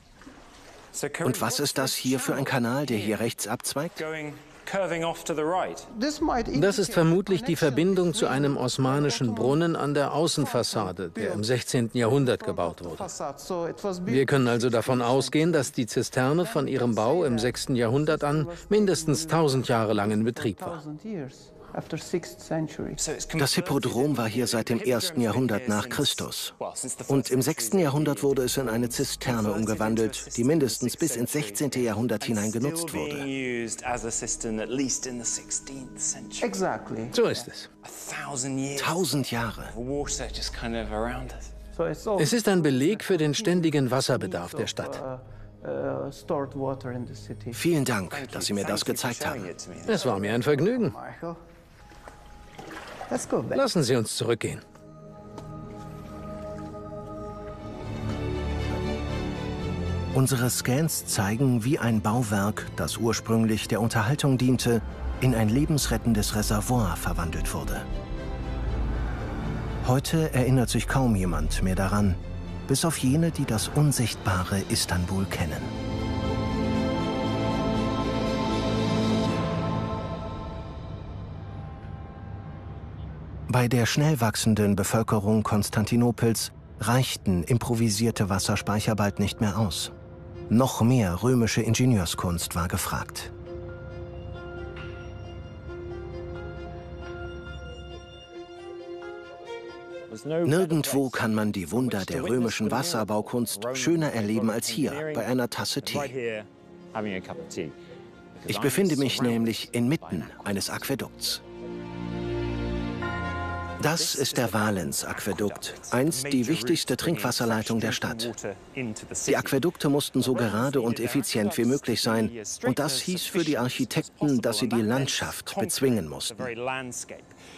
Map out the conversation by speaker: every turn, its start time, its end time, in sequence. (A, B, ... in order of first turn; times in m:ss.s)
0:00.9-0:03.3 A
0:01.2-0:04.0 B
0:04.0-0:05.9 A
0:05.9-0:23.0 C
0:06.5-0:13.1 D
0:14.1-0:20.8 D
0:23.0-0:36.5 A
0:23.4-0:26.6 B
0:27.1-0:33.3 B
0:36.4-0:37.3 C
0:37.1-0:37.7 D
0:37.8-0:41.5 A
0:38.8-0:39.7 B
0:41.7-0:47.7 C
0:42.2-0:45.0 D
0:47.5-0:49.5 B
0:48.1-0:50.2 A
0:49.9-0:51.0 D
0:49.9-0:51.4 C
0:53.1-0:53.7 C
0:53.5-0:54.6 D
1:00.1-1:07.9 B
1:09.8-1:15.7 B
1:23.5-1:29.9 B
1:30.5-1:33.3 B
1:40.1-1:45.3 A
1:40.4-1:46.2 B
1:45.8-1:47.8 A
1:48.4-1:51.0 A
1:48.5-1:51.4 B
1:53.8-1:58.3 B
1:53.9-1:59.6 A
1:59.3-2:06.5 B
2:00.2-2:07.3 A